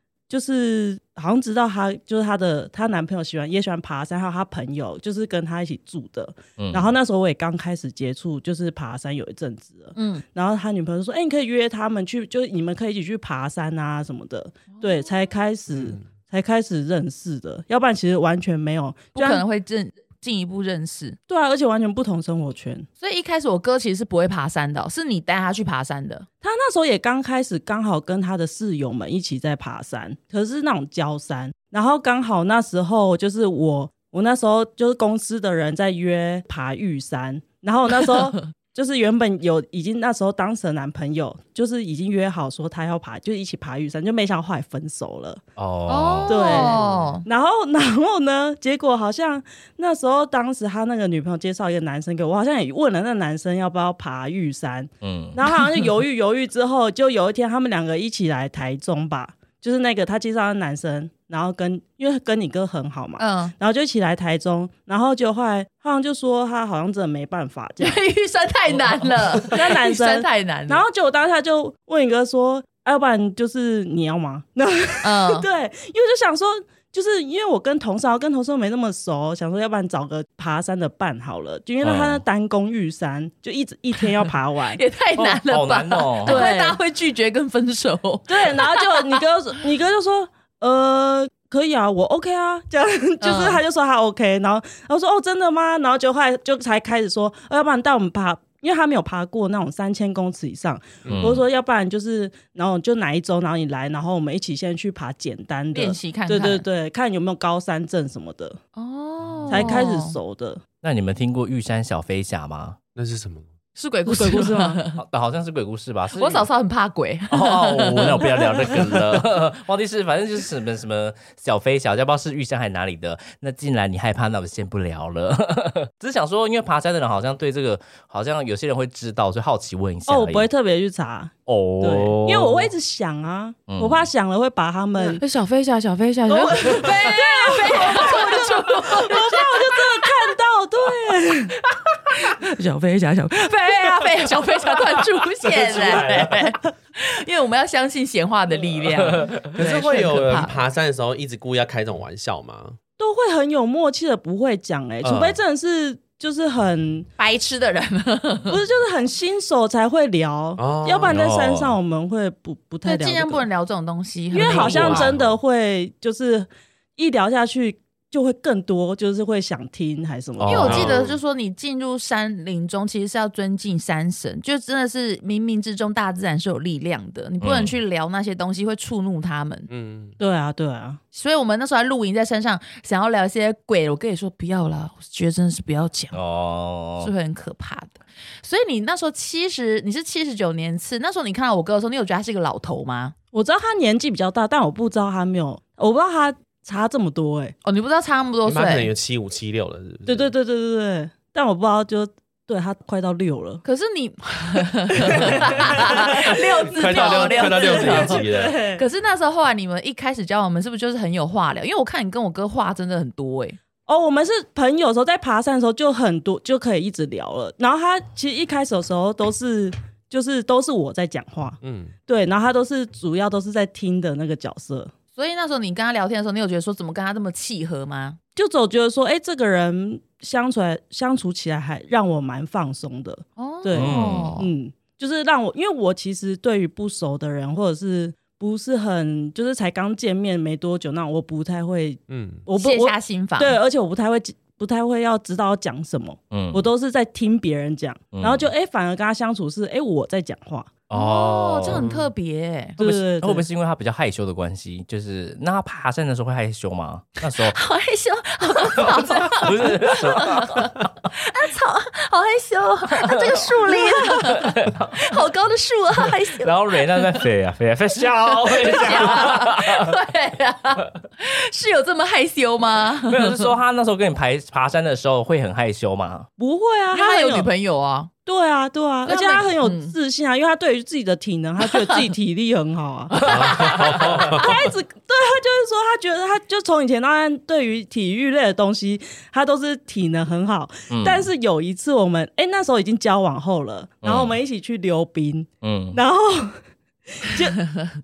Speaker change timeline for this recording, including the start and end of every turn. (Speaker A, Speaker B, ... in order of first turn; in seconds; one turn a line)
Speaker A: 0.3-19.4
Speaker B: 6.6-6.9
Speaker C: 10.0-10.2
Speaker D: 15.7-16.0
Speaker C: 19.1-21.2
Speaker A: 21.3-22.9
Speaker C: 23.0-26.3
Speaker A: 26.4-45.4
Speaker B: 45.6-47.0
Speaker C: 45.9-47.3
Speaker A: 46.3-68.0
Speaker B: 55.0-55.4
Speaker C: 63.2-63.5
Speaker C: 67.8-70.8
Speaker A: 69.4-84.8
Speaker C: 75.0-75.5
Speaker B: 81.8-82.2
Speaker C: 84.8-89.2
Speaker B: 85.2-86.5
Speaker A: 86.2-86.8
Speaker A: 88.3-108.6
Speaker C: 93.2-93.6
Speaker B: 101.1-101.5
Speaker C: 105.7-106.7
Speaker C: 108.8-110.2
Speaker A: 109.5-110.6
Speaker B: 110.8-112.8
Speaker D: 113.0-113.5
Speaker C: 113.8-115.0
Speaker A: 114.1-114.8
Speaker B: 114.9-116.5
Speaker C: 116.1-118.7
Speaker B: 117.3-130.5
Speaker A: 130.1-135.2
Speaker B: 131.5-132.7
Speaker B: 133.7-134.1
Speaker C: 135.2-140.3
Speaker A: 136.3-141.6
Speaker C: 142.1-150.6
Speaker A: 143.6-144.1
Speaker D: 145.5-146.4
Speaker B: 149.0-149.4
Speaker D: 149.5-152.8
Speaker A: 153.0-157.1
Speaker D: 155.0-155.4
Speaker C: 157.2-158.6
Speaker A: 158.5-163.4
Speaker D: 160.6-161.2
Speaker B: 161.1-161.8
Speaker C: 162.9-165.1
Speaker A: 164.3-170.9
Speaker D: 164.4-165.4
Speaker D: 170.4-171.2
Speaker C: 170.5-179.7
Speaker B: 170.6-170.9
Speaker B: 177.4-177.8
Speaker D: 179.7-180.2
Speaker A: 180.2-181.0
Speaker C: 181.1-186.2
Speaker B: 186.1-187.1
Speaker C: 187.0-193.1
Speaker A: 193.3-197.6
Speaker C: 197.6-198.9
Speaker D: 198.4-200.3
Speaker A: 200.1-203.6
Speaker C: 203.7-213.6
Speaker A: 204.9-208.8
Speaker D: 205.1-208.6
Speaker A: 213.9-224.9
Speaker D: 221.6-221.9
Speaker C: 225.2-228.2
Speaker A: 228.4-250.7
Speaker C: 233.4-234.5
Speaker B: 233.7-234.4
Speaker D: 242.1-242.4
Speaker C: 242.6-243.6
Speaker B: 246.3-246.7
Speaker B: 248.1-248.5
Speaker B: 250.9-251.9
Speaker C: 250.9-252.8
Speaker D: 251.7-252.1
Speaker A: 252.8-253.5
Speaker B: 252.8-257.6
Speaker C: 257.4-267.2
Speaker B: 258.8-260.7
Speaker B: 262.9-265.1
Speaker B: 266.4-269.9
Speaker C: 268.4-273.5
Speaker B: 273.1-276.3
Speaker A: 276.4-277.5
Speaker C: 276.9-278.1
Speaker A: 278.3-296.6
Speaker C: 279.1-279.9
Speaker C: 283.1-283.8
Speaker D: 283.2-284.6
Speaker B: 290.9-291.3
Speaker B: 294.0-294.4
Speaker B: 295.6-296.0
Speaker A: 297.1-297.7